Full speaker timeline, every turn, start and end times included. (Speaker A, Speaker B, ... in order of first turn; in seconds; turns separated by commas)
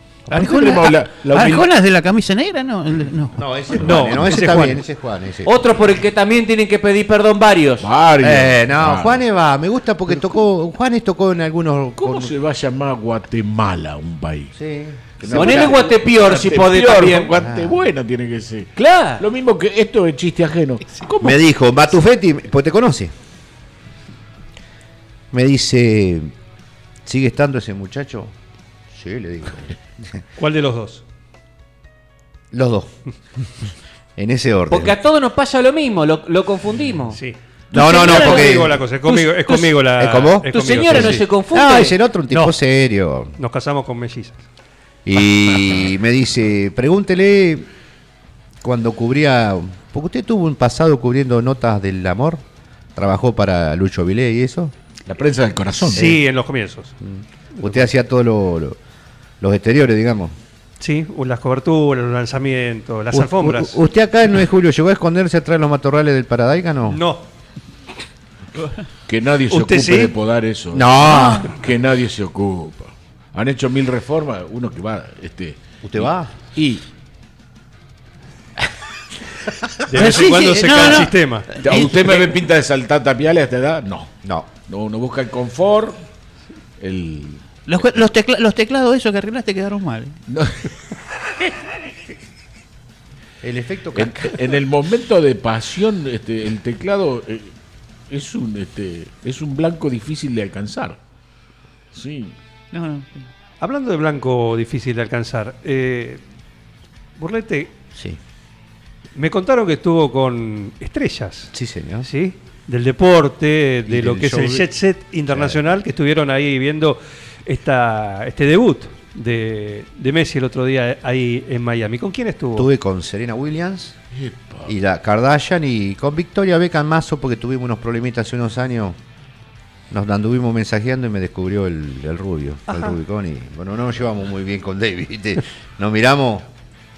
Speaker A: 0.3-1.7, Speaker B: 0.3-3.8, Speaker C: 3.4-5.7, Speaker D: 3.8-4.8, Speaker E: 5.5-7.9, Speaker A: 7.8-9.2, Speaker C: 8.2-12.3, Speaker A: 12.0-14.5, Speaker C: 14.6-15.8, Speaker A: 15.2-21.4, Speaker E: 15.3-17.4, Speaker C: 17.4-17.8, Speaker E: 18.8-19.2, Speaker C: 21.2-23.1, Speaker C: 25.3-26.3, Speaker C: 27.1-28.3, Speaker C: 28.9-30.1, Speaker D: 30.4-31.0, Speaker C: 32.5-32.9, Speaker C: 34.2-35.0, Speaker E: 34.7-37.2, Speaker D: 37.2-41.2, Speaker C: 37.7-38.8, Speaker E: 37.7-38.5, Speaker E: 39.1-39.7, Speaker C: 40.0-43.4, Speaker E: 40.5-42.0, Speaker D: 42.3-42.6, Speaker D: 43.4-44.4, Speaker C: 45.1-47.7, Speaker C: 48.6-52.4, Speaker C: 53.0-54.7, Speaker A: 55.1-56.2, Speaker D: 55.9-56.9, Speaker C: 57.0-58.8, Speaker C: 59.4-60.3, Speaker D: 60.8-63.8, Speaker C: 63.1-67.0, Speaker D: 66.9-67.2, Speaker A: 69.1-75.6, Speaker D: 69.5-70.1, Speaker C: 70.7-71.5, Speaker C: 75.8-76.3, Speaker A: 76.5-76.8, Speaker D: 79.9-81.5, Speaker B: 79.9-82.4, Speaker A: 81.6-84.1, Speaker C: 84.2-84.5, Speaker A: 84.7-86.0, Speaker A: 86.8-87.4, Speaker B: 87.7-90.2, Speaker A: 90.3-90.7, Speaker C: 93.4-94.4, Speaker A: 94.0-97.5, Speaker A: 98.1-101.0, Speaker A: 101.9-102.3, Speaker B: 102.7-103.3, Speaker D: 103.6-106.2, Speaker D: 107.2-107.7, Speaker C: 108.0-108.2, Speaker D: 109.2-111.5, Speaker C: 111.5-112.1, Speaker D: 112.0-122.7, Speaker C: 113.9-114.7, Speaker C: 115.3-115.6, Speaker C: 122.5-124.0, Speaker A: 124.1-124.7, Speaker C: 124.7-129.0, Speaker C: 129.9-136.5, Speaker D: 132.7-132.9